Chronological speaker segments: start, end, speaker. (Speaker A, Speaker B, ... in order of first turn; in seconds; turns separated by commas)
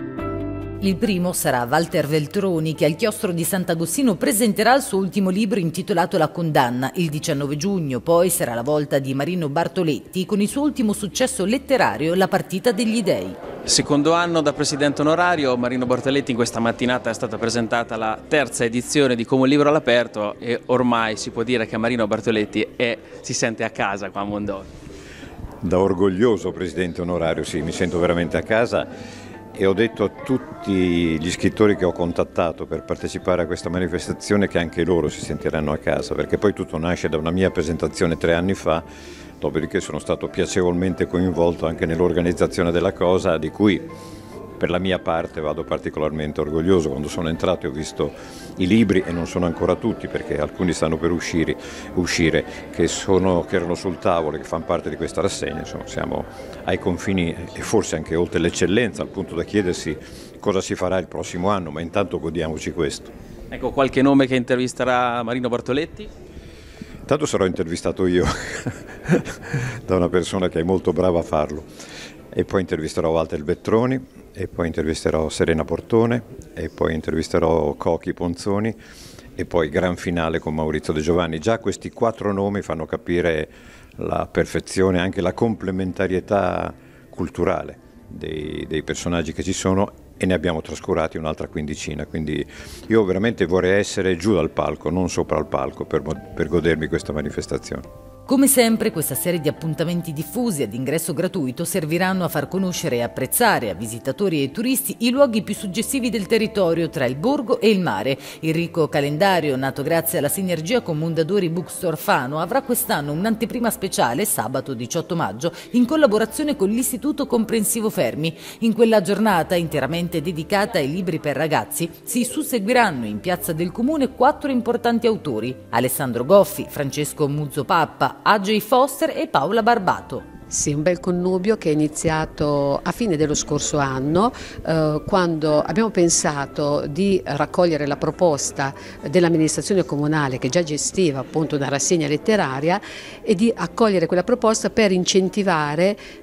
Speaker A: 0.8-13.4, Speaker B: 13.6-24.7, Speaker C: 25.6-28.9, Speaker C: 29.5-38.8, Speaker C: 39.4-43.9, Speaker C: 44.6-63.1, Speaker B: 63.5-66.1, Speaker C: 67.0-71.7, Speaker C: 72.3-78.8, Speaker C: 79.4-97.8, Speaker A: 98.2-130.2, Speaker D: 130.5-146.0